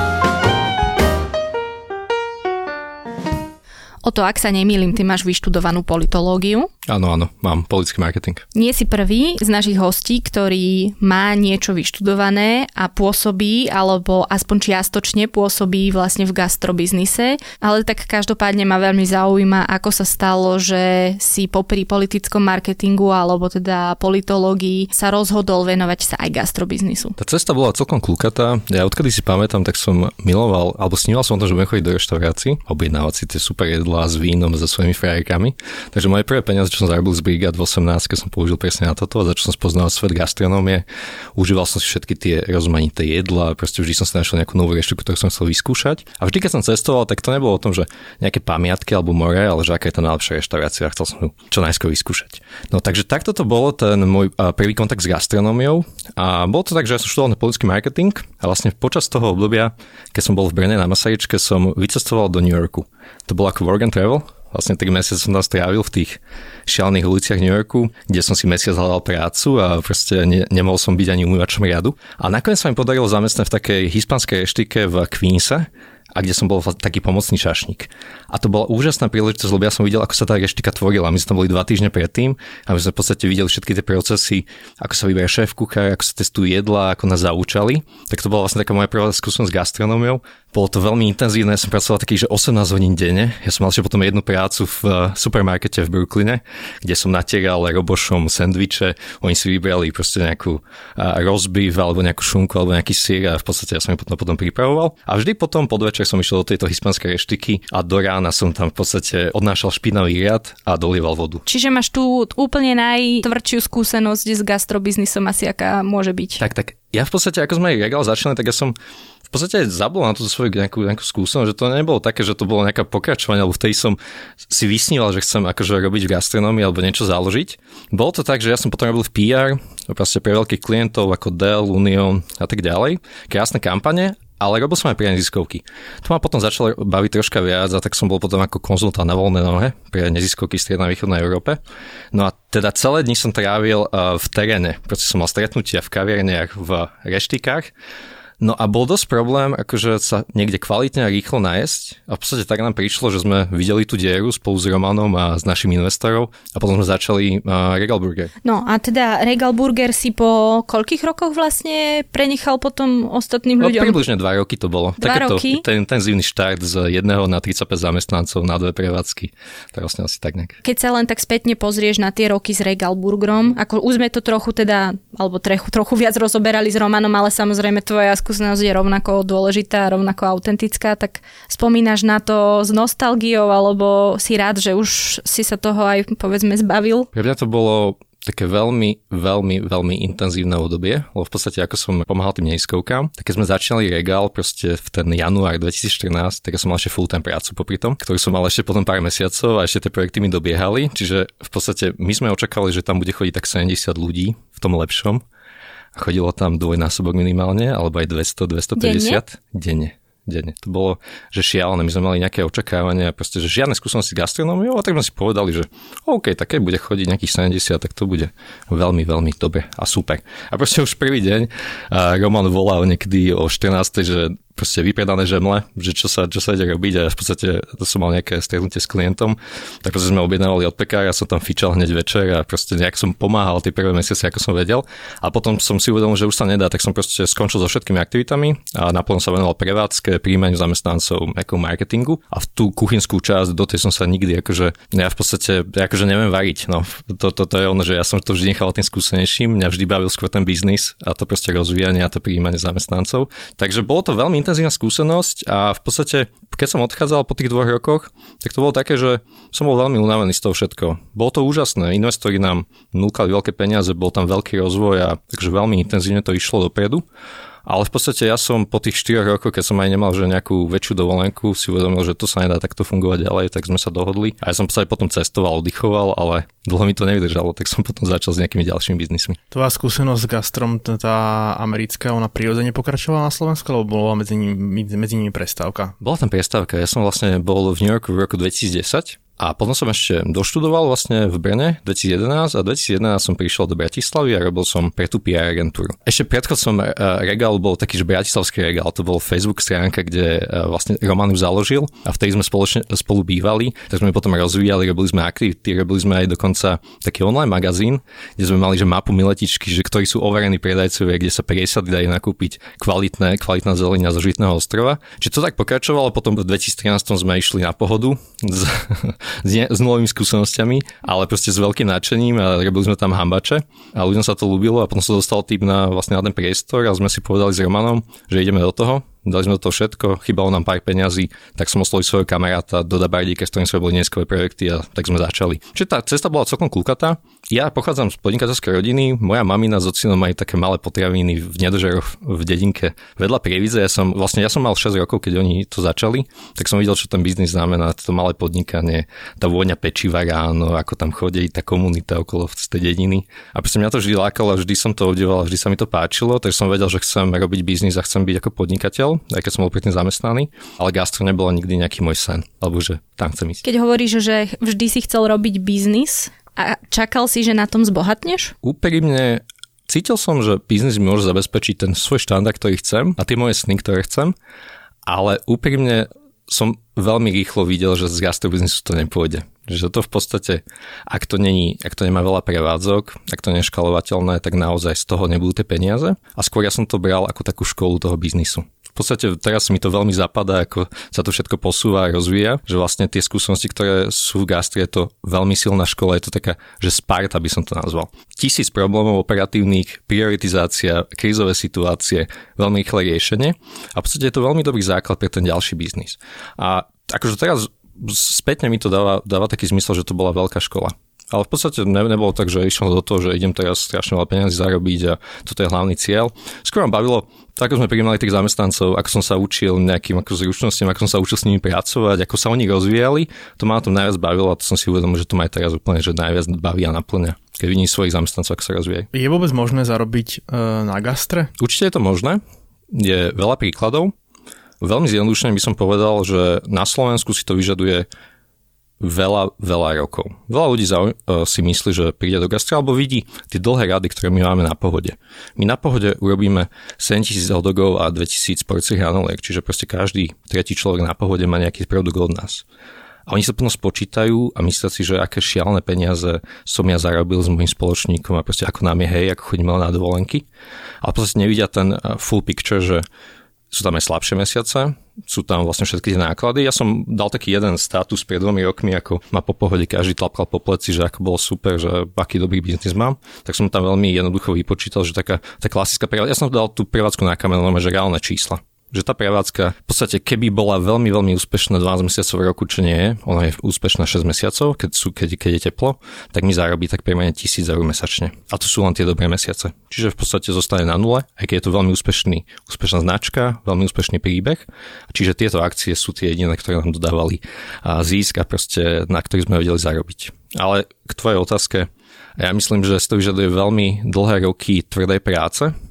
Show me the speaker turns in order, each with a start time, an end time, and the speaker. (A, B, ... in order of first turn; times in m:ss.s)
0:04.0-0:06.7 A
0:06.8-0:08.4 B
0:08.5-0:27.2 A
0:27.2-1:51.4 B
1:51.4-1:56.4 A
1:56.4-1:58.7 B
1:59.3-2:04.0 B
2:04.5-2:21.6 B
2:22.1-2:27.7 B
2:28.4-2:38.3 B
2:38.4-2:44.0 A
2:43.6-2:50.6 B
2:45.0-2:45.6 A
2:50.6-3:07.1 A
3:07.1-3:25.2 B
3:25.9-4:27.0 B
3:28.8-3:29.2 A
4:27.6-4:39.4 B
4:39.5-4:46.0 C
4:46.0-6:03.6 B
6:03.6-6:08.5 A
6:08.6-6:14.3 B
6:15.0-7:09.1 B
7:09.1-7:11.5 C
7:11.6-7:12.4 B
7:12.9-7:14.1 B
7:14.8-7:18.0 B
7:19.0-7:32.6 B
7:33.3-7:40.4 B
7:41.0-7:43.0 B
7:43.7-8:25.7 B